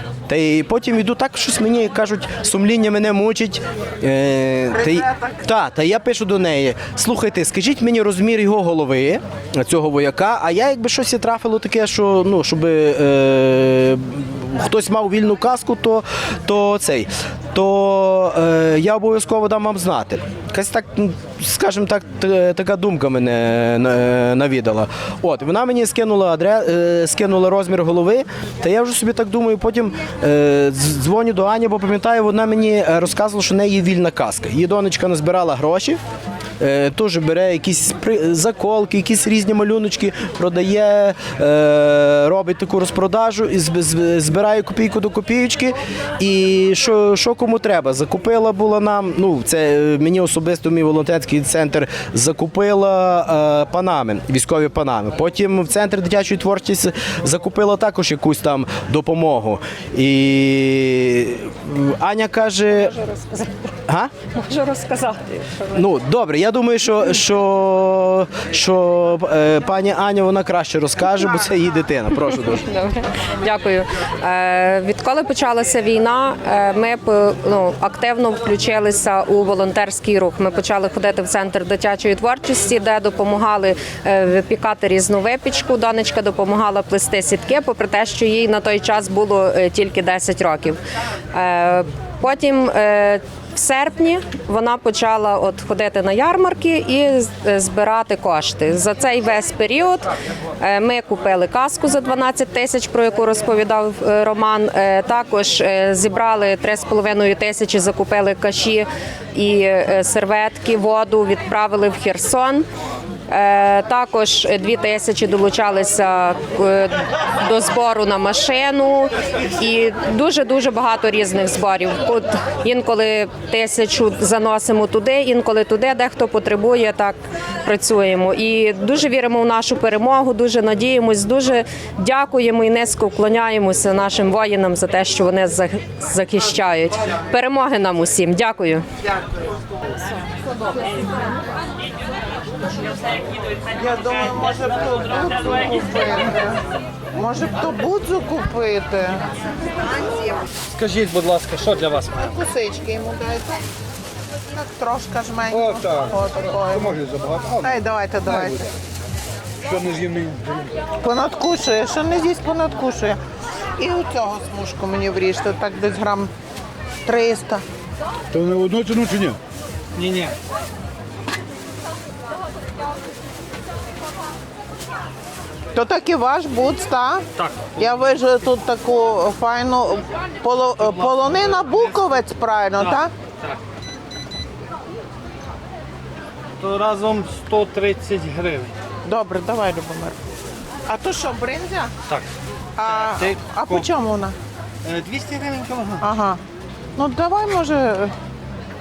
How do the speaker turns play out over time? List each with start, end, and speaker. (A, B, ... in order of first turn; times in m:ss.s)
0:00.3-0:36.0 A
0:36.6-1:03.0 A
1:03.8-1:04.1 A
1:04.4-1:05.5 B
1:05.7-1:12.6 A
1:12.4-1:30.8 B
1:31.3-1:40.1 B
1:40.6-1:52.6 B
1:53.3-2:18.8 B
2:23.7-2:26.6 C
2:27.1-2:29.3 C
2:30.7-2:32.3 D
2:32.1-2:33.6 C
2:34.5-2:37.0 C
2:35.5-2:38.6 E
2:37.6-2:38.7 C
2:39.6-2:40.7 E
2:41.0-2:43.2 C
2:43.8-2:46.3 C
2:47.0-2:47.6 C
2:48.3-2:49.4 E
2:50.0-2:50.3 D
2:55.7-3:03.1 C
2:57.4-2:57.9 D
3:00.7-3:02.2 D
3:02.8-3:03.6 D
3:06.6-3:08.7 D
3:09.0-3:10.2 C
3:10.9-3:11.9 C
3:12.8-3:14.4 C
3:12.8-3:13.9 D
3:14.8-3:16.0 D
3:16.0-3:16.4 C
3:17.0-3:18.1 C